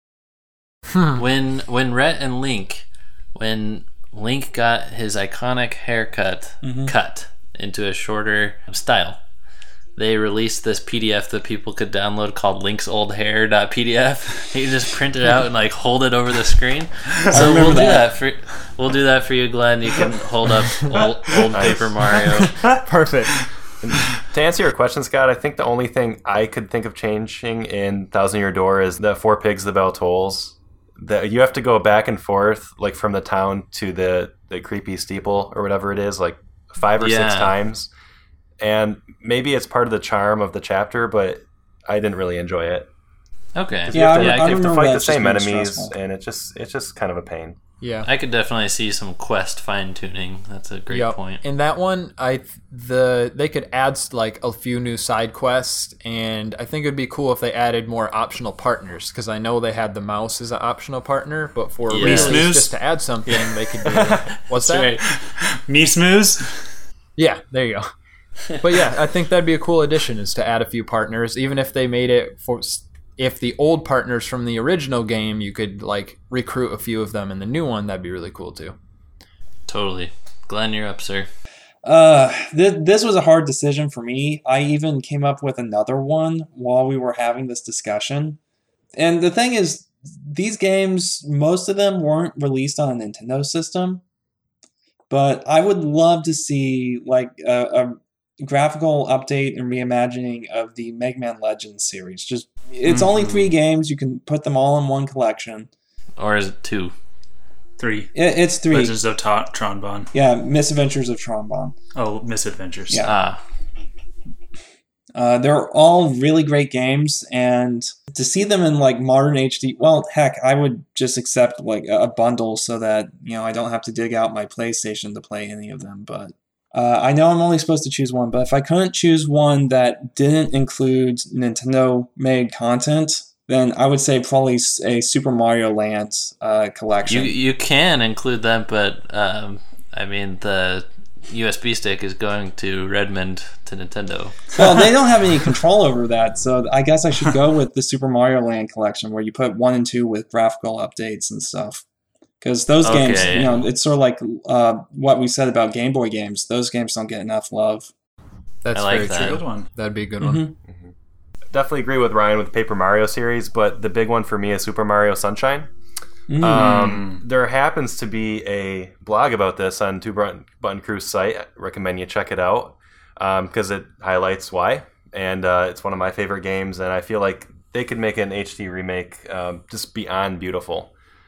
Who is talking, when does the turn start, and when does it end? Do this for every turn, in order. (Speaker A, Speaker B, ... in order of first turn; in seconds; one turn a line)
Speaker A: 0.9-1.2
Speaker B: 1.1-9.2
Speaker C: 6.6-6.9
Speaker B: 9.9-22.5
Speaker C: 17.3-18.1
Speaker D: 20.9-21.5
Speaker E: 21.5-22.2
Speaker A: 22.6-23.4
Speaker E: 23.8-37.9
Speaker B: 37.0-37.5
Speaker E: 38.6-42.9
Speaker B: 43.5-44.0
Speaker E: 43.9-47.5
Speaker C: 43.9-45.9
Speaker A: 47.8-48.1
Speaker B: 48.0-51.4
Speaker A: 50.9-65.0
Speaker B: 61.9-62.5
Speaker D: 62.0-62.7
Speaker B: 63.3-65.1
Speaker D: 65.3-66.7
Speaker A: 67.2-67.9
Speaker A: 68.5-78.7
Speaker B: 79.7-81.3
Speaker C: 81.8-88.4
Speaker C: 89.0-94.0
Speaker C: 95.1-105.7
Speaker D: 102.8-103.5
Speaker B: 106.2-106.9
Speaker D: 107.8-108.1
Speaker C: 108.1-108.9
Speaker D: 108.7-110.1
Speaker C: 110.1-111.7
Speaker D: 111.9-113.0
Speaker B: 113.0-113.4
Speaker C: 115.1-137.3
Speaker B: 137.0-144.5
Speaker C: 144.6-151.8
Speaker C: 152.4-157.9
Speaker B: 152.8-153.7
Speaker A: 158.6-160.4
Speaker B: 158.7-159.4
Speaker D: 159.1-159.7
Speaker C: 160.2-160.6
Speaker E: 160.7-160.9
Speaker E: 161.5-165.7
Speaker C: 166.3-167.0
Speaker E: 166.4-180.9
Speaker D: 166.6-167.2